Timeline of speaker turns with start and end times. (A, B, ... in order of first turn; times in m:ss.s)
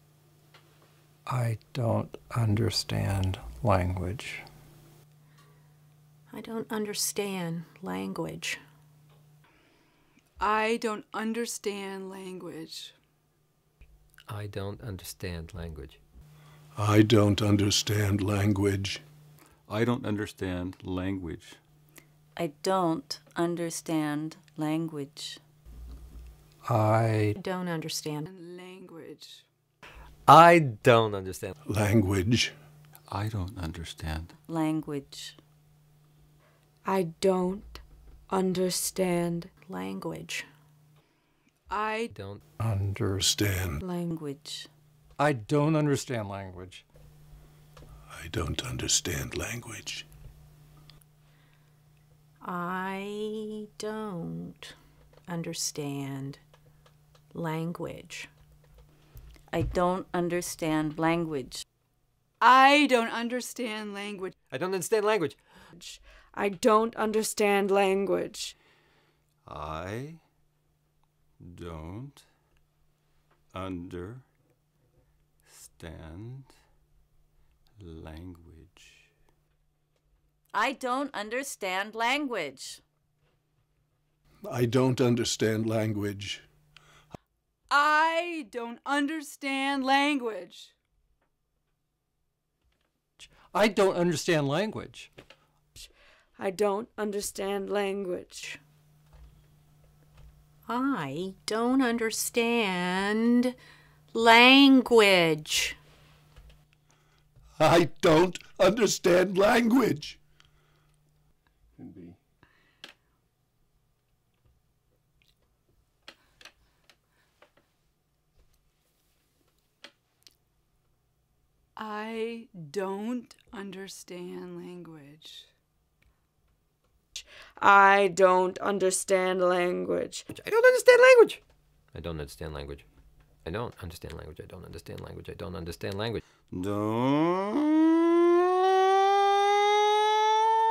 0:01.2-0:04.4 A
0:06.3-0:08.6 B
0:10.4-0:12.9 C
0:14.3-0:16.0 D
0:16.8-0:19.0 E
0:19.7-0:21.6 F
0:22.4-0:25.4 G
0:26.6-0:27.3 A
0:27.4-0:28.3 B
0:28.3-0:29.4 C
0:30.3-0:31.5 D
0:31.7-0:32.5 E
0:33.1-0:34.3 F
0:34.4-0:35.4 G
0:36.8-0:39.5 H
0:39.7-0:40.4 B
0:41.7-0:42.1 C
0:42.1-0:42.4 D
0:42.6-0:43.4 A
0:43.2-0:43.8 E
0:43.8-0:44.1 H
0:44.1-0:44.7 G
0:45.2-0:46.8 A
0:48.1-0:50.0 E
0:52.4-0:54.7 B
0:55.3-0:56.4 B
0:57.3-0:58.3 B
0:59.5-1:01.6 G
1:02.4-1:04.3 C
1:04.5-1:05.4 D
1:05.7-1:08.5 H
1:09.4-1:10.2 F
1:11.4-1:12.2 F
1:13.5-1:14.2 F
1:15.4-1:16.5 F
1:17.8-1:19.1 F
1:20.5-1:22.8 G
1:24.5-1:26.4 E
1:27.7-1:30.7 C
1:33.2-1:35.1 A
1:35.8-1:38.6 H
1:40.7-1:43.5 B
1:44.1-1:45.8 B
1:47.6-1:50.2 E
2:01.8-2:05.5 C
2:07.2-2:10.2 H
2:10.3-2:11.4 D
2:11.9-2:12.8 D
2:13.4-2:16.2 D
2:16.5-2:18.0 F